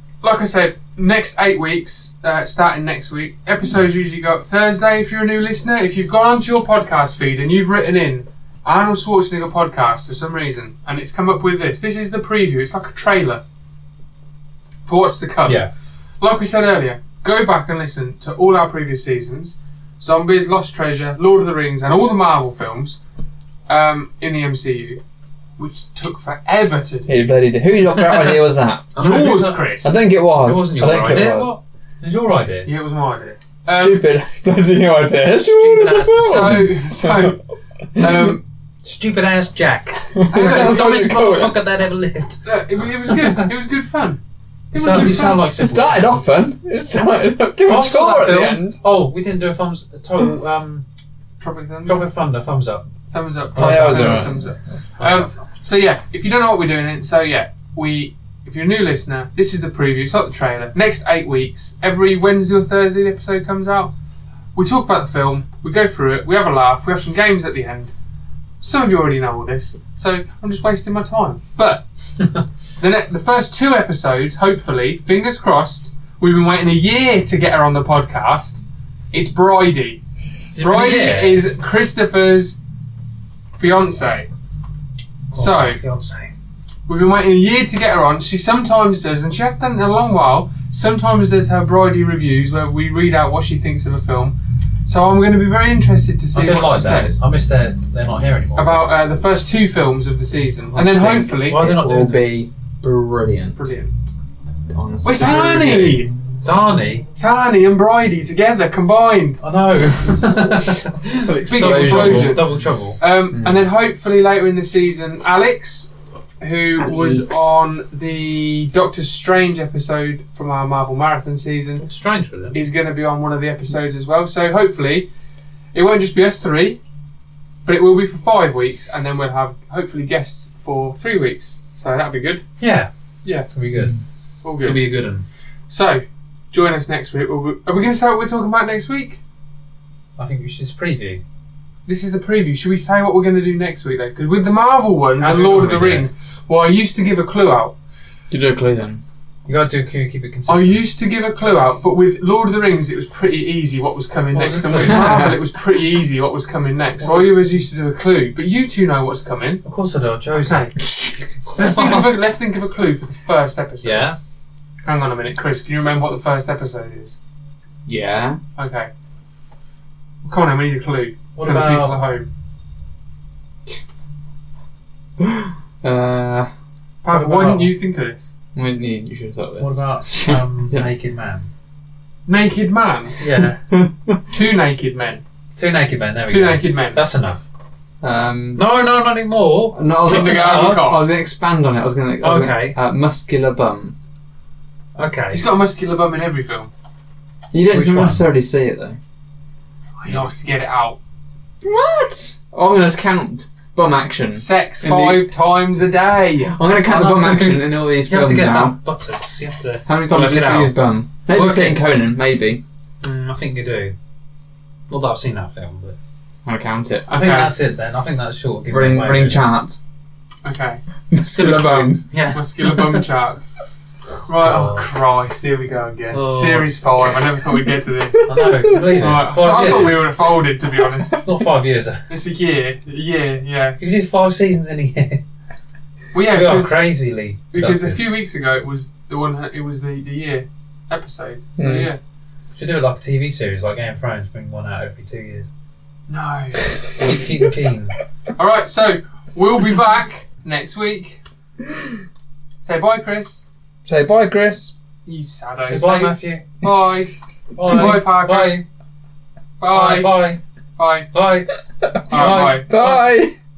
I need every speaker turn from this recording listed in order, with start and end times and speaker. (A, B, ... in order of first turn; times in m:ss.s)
0:00.2-0:13.4 A
0:14.9-0:15.6 A
0:16.2-0:23.0 A
0:23.7-0:25.0 A
0:25.6-0:27.2 A
0:27.1-0:29.0 B
0:29.0-0:32.7 C
0:29.0-0:29.9 A
0:29.8-0:31.5 B
0:32.6-0:34.0 A
0:33.7-0:37.4 B
0:35.4-0:36.8 C
0:36.2-0:37.4 A
0:38.0-0:38.4 A
0:38.0-0:38.3 B
0:38.8-0:42.5 C
0:40.2-0:41.6 B
0:40.3-0:40.9 A
0:42.4-0:44.2 A
0:43.1-0:43.5 C
0:44.7-0:45.4 A
0:44.7-0:46.2 C
0:44.9-0:48.8 B
0:47.6-0:50.8 C
0:51.4-0:52.0 A
0:51.9-0:52.9 C
0:53.1-1:03.9 A
0:53.6-0:54.4 C
0:53.6-0:54.6 B
0:55.0-0:55.4 C
1:04.6-1:07.9 A
1:08.6-1:11.8 A
1:12.8-1:20.0 A
1:20.5-1:21.5 C
1:20.6-1:22.6 A
1:23.6-1:24.3 A
1:25.3-1:26.3 C
1:25.3-1:25.8 A
1:26.9-1:37.2 A
1:36.3-1:38.8 C
1:38.6-1:41.7 A
1:40.8-1:43.7 B
1:41.3-1:42.2 C
1:43.6-1:43.9 A
1:44.7-1:46.2 B
1:45.0-1:46.1 A
1:46.4-1:47.1 C
1:47.2-1:49.4 A
1:49.4-1:53.0 C
1:51.2-1:52.4 B
1:51.4-2:01.8 A
1:53.3-1:53.6 B
1:56.9-1:57.2 B
2:01.8-2:02.6 C
2:02.5-2:05.1 A
2:05.7-2:06.8 A
2:07.6-2:12.4 A
2:12.6-2:12.9 C
2:13.5-2:14.0 C
2:14.4-2:14.9 A
2:14.6-2:15.2 C
2:15.7-2:19.2 A
2:20.2-2:21.2 C
2:21.9-2:27.8 A
2:25.2-2:26.1 C
2:28.3-2:29.0 B
2:29.5-2:30.8 C
2:30.5-2:39.6 A
2:34.3-2:35.4 C
2:34.9-2:35.3 B
2:37.0-2:37.4 C
2:39.6-2:40.8 C
2:40.5-2:40.7 A
2:40.8-2:41.1 B
2:41.5-2:44.1 A
2:41.6-2:42.1 C
2:43.8-2:44.2 C
2:44.8-2:47.2 A
2:47.9-2:48.4 B
2:48.6-2:48.9 A
2:50.2-2:52.3 A
2:51.4-2:52.0 C
2:55.2-2:56.5 B
2:57.0-2:58.3 A
2:57.1-2:57.8 C
2:58.6-3:00.9 B
2:59.6-3:01.5 C
3:02.3-3:03.2 A
3:03.2-3:03.6 C
3:03.7-3:04.2 B
3:04.3-3:05.2 A
3:05.6-3:07.4 C
3:06.3-3:07.0 A
3:08.0-3:08.6 B
3:08.6-3:10.9 C
3:09.7-3:14.0 B
3:10.0-3:11.1 A
3:12.2-3:12.8 C
3:15.0-3:15.5 C
3:15.3-3:16.7 A
3:17.5-3:19.0 B
3:17.7-3:18.2 C
3:20.0-3:21.0 A
3:21.6-3:25.3 B
3:24.4-3:26.6 A
3:26.5-3:28.8 B
3:26.9-3:30.7 C
3:29.9-3:32.6 B
3:31.3-3:31.8 C
3:33.0-3:33.9 C
3:34.9-3:36.0 C
3:36.5-3:37.1 B
3:37.1-3:37.5 A
3:37.1-3:39.4 C
3:38.7-3:39.8 B
3:40.4-3:40.8 A
3:41.1-3:42.0 B
3:41.3-3:43.0 C
3:42.2-3:43.5 A
3:44.2-3:51.3 A
3:44.4-3:44.9 C
3:46.1-3:46.7 C
3:48.2-3:50.1 C
3:48.4-3:48.7 B
3:51.1-3:52.1 C
3:52.1-3:53.8 A
3:53.8-3:55.2 C
3:56.1-3:56.8 A
3:56.3-3:58.0 C
3:57.5-4:02.0 A
4:01.6-4:01.9 B
4:02.6-4:05.5 C
4:06.1-4:06.8 A
4:07.0-4:08.0 C
4:08.4-4:11.2 A
4:12.6-4:13.4 A
4:13.9-4:14.7 B
4:15.0-4:18.6 A
4:15.6-4:16.5 C
4:17.6-4:18.6 C
4:19.6-4:20.1 A
4:19.7-4:20.4 C
4:20.8-4:21.1 A
4:21.1-4:23.0 C
4:22.1-4:22.7 A
4:22.1-4:23.3 B